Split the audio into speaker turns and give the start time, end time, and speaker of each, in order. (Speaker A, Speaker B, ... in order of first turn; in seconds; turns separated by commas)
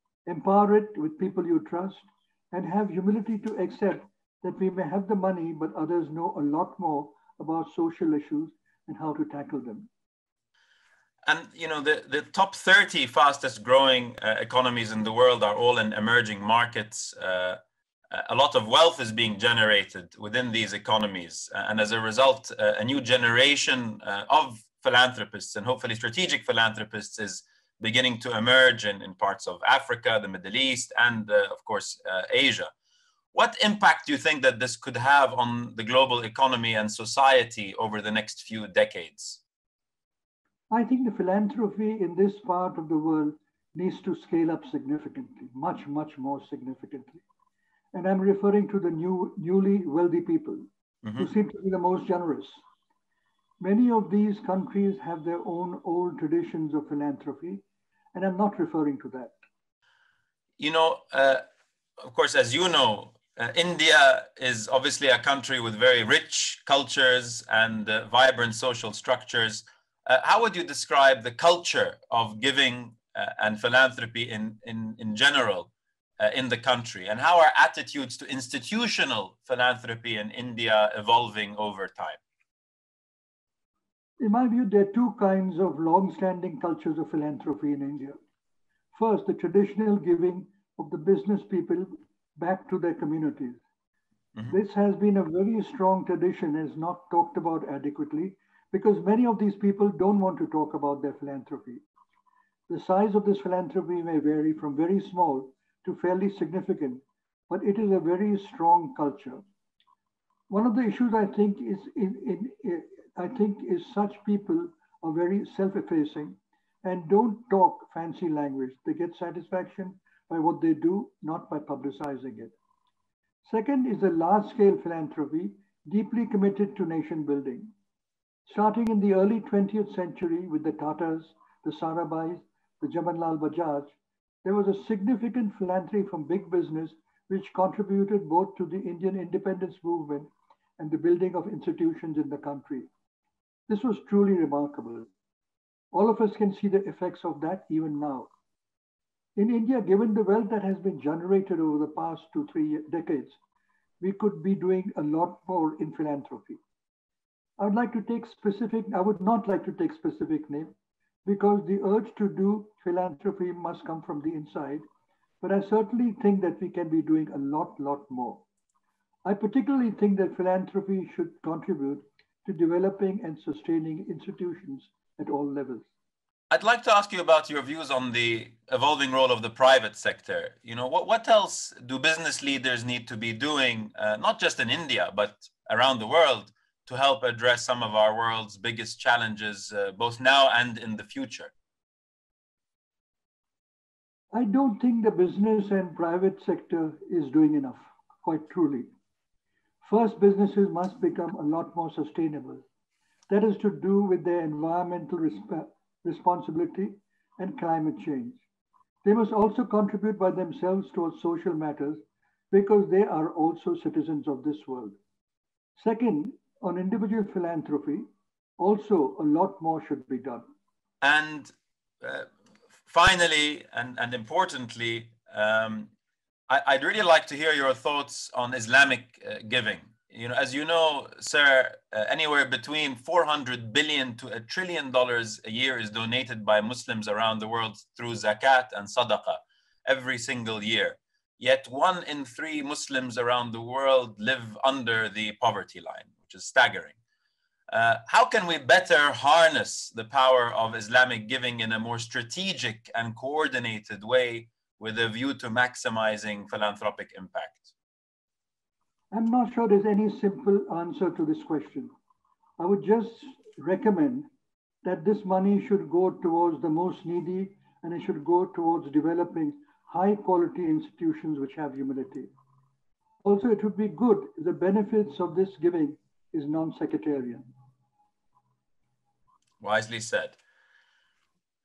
Speaker A: 0.3-9.9, Speaker B: 11.3-17.6, Speaker B: 18.1-32.7, Speaker B: 33.3-39.4, Speaker A: 40.7-47.2, Speaker A: 47.9-52.6, Speaker B: 51.0-51.3, Speaker A: 53.6-59.3, Speaker B: 60.6-61.4, Speaker B: 62.0-82.2, Speaker A: 84.2-88.2, Speaker A: 88.9-93.6, Speaker A: 94.5-101.8, Speaker A: 102.7-109.4, Speaker A: 110.5-122.5, Speaker A: 123.4-127.7, Speaker A: 128.4-142.9, Speaker A: 143.7-145.1, Speaker A: 145.9-148.3, Speaker A: 149.3-153.4, Speaker A: 154.0-156.6, Speaker A: 157.6-160.7, Speaker A: 161.2-164.8, Speaker A: 165.4-168.4, Speaker A: 169.2-175.9, Speaker B: 176.5-191.5, Speaker A: 194.3-198.9, Speaker A: 199.8-202.6, Speaker A: 203.3-208.4, Speaker A: 209.0-214.9, Speaker A: 215.8-218.1, Speaker A: 218.6-220.4, Speaker B: 221.0-222.3, Speaker B: 222.9-225.9, Speaker B: 226.5-246.9, Speaker B: 247.7-257.7, Speaker A: 259.1-261.9, Speaker A: 262.6-264.3, Speaker A: 264.8-272.3, Speaker A: 273.2-277.5, Speaker B: 279.6-280.4